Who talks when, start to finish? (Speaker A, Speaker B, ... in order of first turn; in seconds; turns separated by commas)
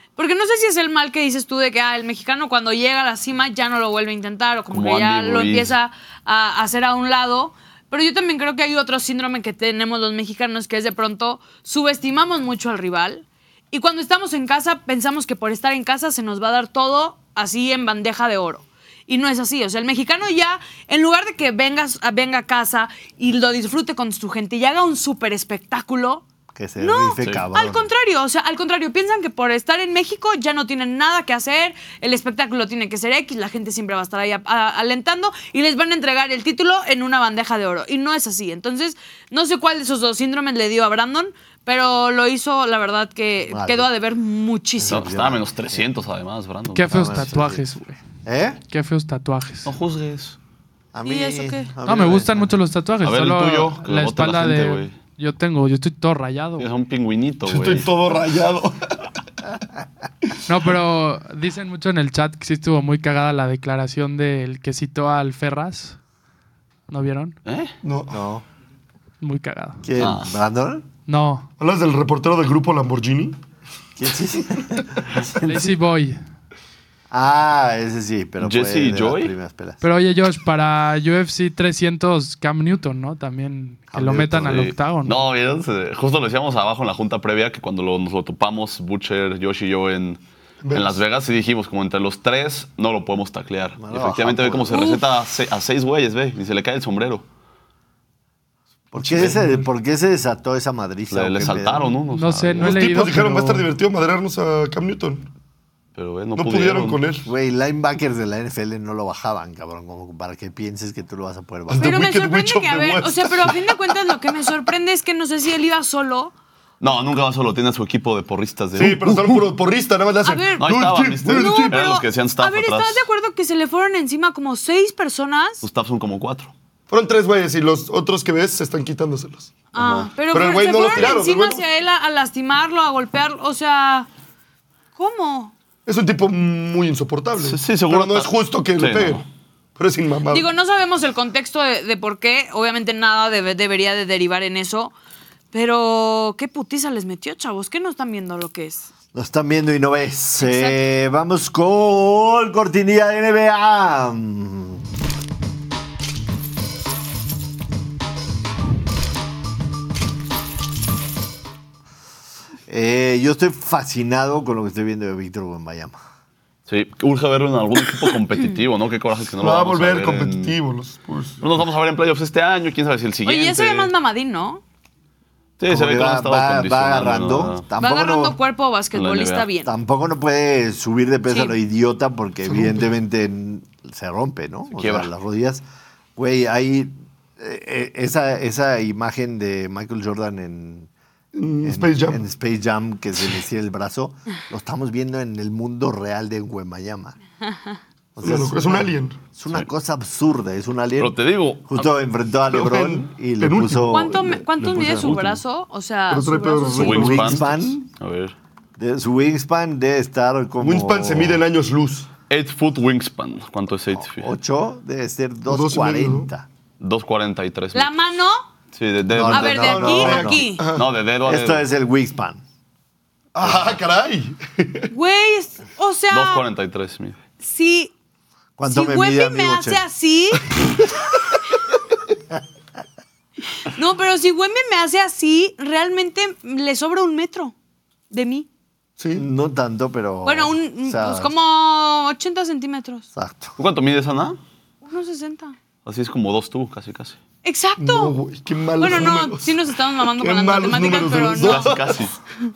Speaker A: 0.1-26.2, Speaker B: 4.7-5.7, Speaker C: 26.5-27.9, Speaker A: 26.8-45.1, Speaker C: 43.5-43.9, Speaker C: 44.8-45.8, Speaker B: 44.9-47.3, Speaker D: 46.7-48.0, Speaker C: 46.9-47.6, Speaker C: 48.2-48.6, Speaker D: 48.7-49.7, Speaker B: 49.6-50.4, Speaker C: 50.9-52.5, Speaker A: 51.0-51.7, Speaker D: 51.8-56.7, Speaker B: 53.0-54.9, Speaker B: 56.6-57.9, Speaker E: 57.5-59.0, Speaker D: 60.5-66.0, Speaker D: 66.9-67.3, Speaker B: 67.4-67.7, Speaker E: 67.8-68.2, Speaker C: 68.1-68.4, Speaker D: 69.2-69.9, Speaker C: 69.8-70.9, Speaker B: 70.0-70.3, Speaker D: 71.1-71.5, Speaker E: 71.6-73.4, Speaker C: 74.0-75.7, Speaker D: 75.4-76.2, Speaker C: 77.1-79.8, Speaker B: 78.4-79.3, Speaker D: 79.8-85.2, Speaker C: 83.9-84.7, Speaker B: 84.4-90.2, Speaker E: 90.6-91.0, Speaker B: 90.7-97.2, Speaker C: 93.8-94.9, Speaker A: 94.7-95.0, Speaker C: 98.9-102.0, Speaker B: 101.1-102.9, Speaker D: 102.1-103.7, Speaker E: 102.6-105.3, Speaker B: 105.9-107.0, Speaker E: 106.4-107.3, Speaker C: 107.2-112.0, Speaker E: 111.7-114.3, Speaker A: 111.8-116.3, Speaker B: 116.8-119.4, Speaker E: 118.8-121.8, Speaker A: 120.2-120.7, Speaker B: 120.6-123.0, Speaker A: 121.3-125.6, Speaker B: 125.6-126.5, Speaker E: 126.9-129.5, Speaker A: 129.7-134.1, Speaker B: 129.7-130.1, Speaker E: 130.3-131.6, Speaker A: 134.9-135.5, Speaker E: 135.9-139.2, Speaker B: 137.4-139.2, Speaker E: 139.8-140.5, Speaker A: 140.3-144.9, Speaker A: 145.5-148.9, Speaker C: 149.1-154.8, Speaker A: 150.4-150.8, Speaker C: 162.7-166.0, Speaker B: 166.7-170.6, Speaker E: 169.4-171.4, Speaker B: 171.4-173.9, Speaker A: 173.2-174.6, Speaker B: 175.6-177.6, Speaker C: 175.7-178.4, Speaker A: 177.8-179.7, Speaker B: 178.9-179.4, Speaker C: 179.6-185.6, Speaker A: 181.3-181.6, Speaker E: 182.5-182.9, Speaker B: 184.7-185.1, Speaker C: 186.2-190.9, Speaker E: 191.3-192.2, Speaker C: 191.6-197.2, Speaker C: 198.2-205.2, Speaker E: 198.2-199.2, Speaker B: 201.0-201.9, Speaker E: 202.5-205.0, Speaker A: 203.9-207.2, Speaker B: 205.0-205.4, Speaker E: 206.1-207.6, Speaker B: 206.7-208.3, Speaker C: 206.8-207.8, Speaker C: 208.8-211.4, Speaker E: 210.6-212.1, Speaker B: 212.3-214.3, Speaker C: 213.9-216.5, Speaker E: 215.5-216.3, Speaker B: 216.8-217.9, Speaker A: 217.7-218.4, Speaker B: 218.7-221.6, Speaker C: 219.1-220.4, Speaker A: 219.3-220.6, Speaker E: 219.7-220.9, Speaker C: 221.2-222.4, Speaker E: 223.3-224.9, Speaker C: 223.4-223.8, Speaker A: 224.9-226.4, Speaker B: 226.1-227.2, Speaker A: 227.4-227.9, Speaker C: 228.6-229.8, Speaker A: 228.7-230.5, Speaker A: 233.6-237.5, Speaker A: 238.1-238.5, Speaker E: 239.0-239.2, Speaker C: 239.1-241.3, Speaker A: 240.2-243.1, Speaker C: 243.1-243.6, Speaker B: 243.6-244.4, Speaker A: 244.8-245.6, Speaker B: 245.8-247.2, Speaker A: 247.4-248.2, Speaker E: 247.8-252.1, Speaker A: 248.8-251.7, Speaker B: 251.4-252.1